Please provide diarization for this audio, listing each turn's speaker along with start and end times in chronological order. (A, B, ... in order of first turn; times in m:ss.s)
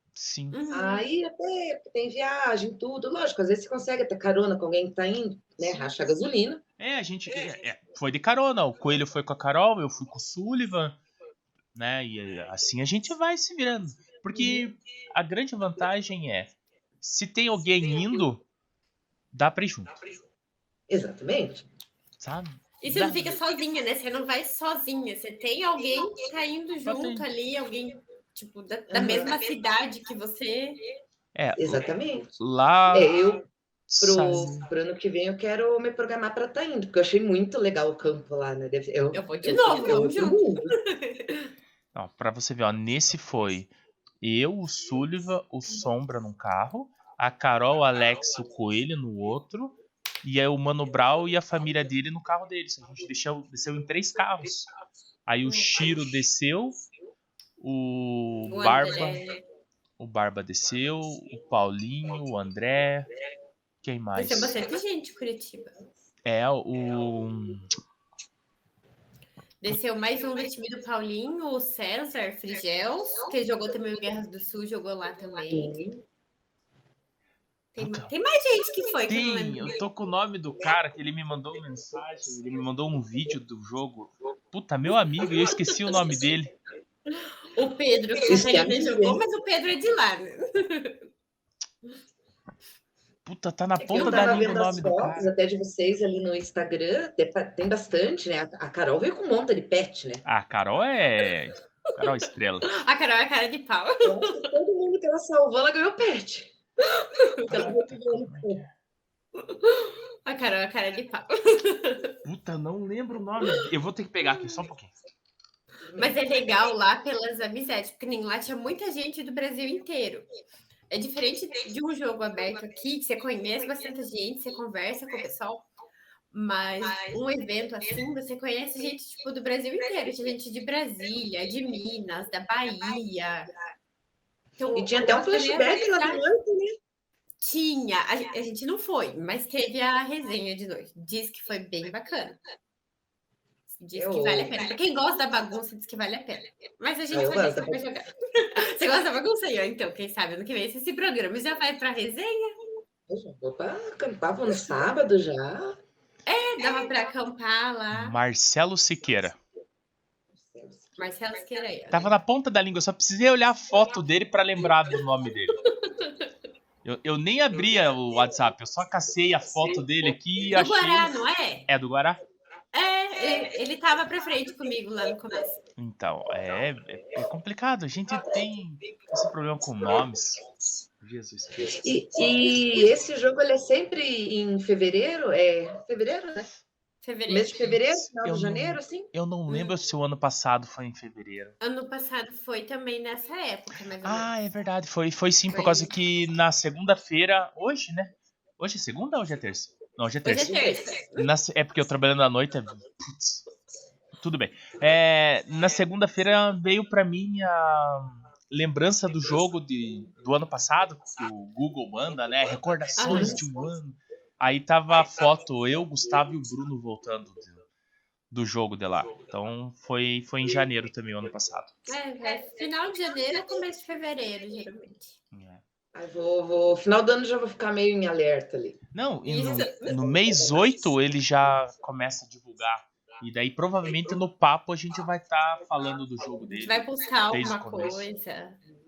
0:00.1-0:00.6 A
0:00.5-0:01.0 B
0:00.7-0:06.6 C
0:06.8-0:11.0 A
0:11.7-0:18.4 A
0:14.3-0:14.6 C
0:19.3-0:20.0 A
0:20.9-0:21.7 C
0:22.2-0:23.4 A
0:22.8-0:30.8 B
0:26.8-0:27.3 A
0:28.9-0:29.3 C
0:31.3-0:33.1 A
0:31.6-0:32.3 C
0:32.9-0:33.4 C
0:33.9-0:34.7 A
0:34.0-0:40.7 C
0:39.1-0:41.5 B
0:41.9-0:54.7 A
0:55.3-0:56.8 A
0:57.6-0:59.2 A
0:58.5-0:59.4 B
1:00.0-1:03.1 A
1:03.8-1:04.5 A
1:04.1-1:05.8 B
1:06.2-1:07.7 A
1:09.6-1:15.8 B
1:15.5-1:16.0 C
1:17.8-1:19.7 B
1:17.8-1:18.1 A
1:19.1-1:26.5 A
1:27.1-1:31.0 B
1:28.3-1:29.2 C
1:33.2-1:35.3 A
1:33.8-1:40.2 C
1:34.0-1:34.2 B
1:40.2-1:42.7 A
1:42.6-1:44.5 B
1:44.0-1:46.5 C
1:46.9-1:47.7 B
1:47.5-1:48.6 C
1:47.5-1:48.7 A
1:49.4-1:52.1 B
1:52.2-1:54.9 A
1:55.8-1:56.2 C
1:56.0-2:00.2 B
2:00.9-2:05.7 B
2:06.3-2:13.5 B
2:14.6-2:16.2 B
2:14.7-2:16.8 C
2:17.4-2:22.4 B
2:23.8-2:32.6 B
2:23.9-2:24.6 C
2:27.1-2:27.8 C
2:33.1-2:35.8 C
2:36.2-2:38.2 B
2:37.9-2:39.4 A
2:40.3-2:40.9 C
2:41.0-2:42.1 B
2:41.9-2:45.6 A
2:46.8-2:51.1 A
2:50.5-2:51.7 B
2:51.7-2:52.2 A
2:52.7-2:55.6 B
2:55.8-3:00.4 A
3:01.0-3:01.8 A
3:01.7-3:06.5 C
3:07.0-3:07.8 B
3:07.3-3:09.1 C
3:08.1-3:11.5 A
3:11.6-3:14.3 B
3:14.0-3:20.6 A
3:15.5-3:15.9 B
3:20.2-3:21.3 B
3:20.3-3:20.9 C
3:21.2-3:23.4 A
3:24.2-3:37.6 A
3:33.0-3:33.4 B
3:33.0-3:33.4 C
3:38.3-3:41.8 A
3:41.9-3:45.2 B
3:45.3-3:45.6 A
3:45.9-3:48.8 C
3:48.9-3:58.1 A
3:49.2-3:50.1 B
3:50.2-3:50.5 C
3:56.6-3:58.6 B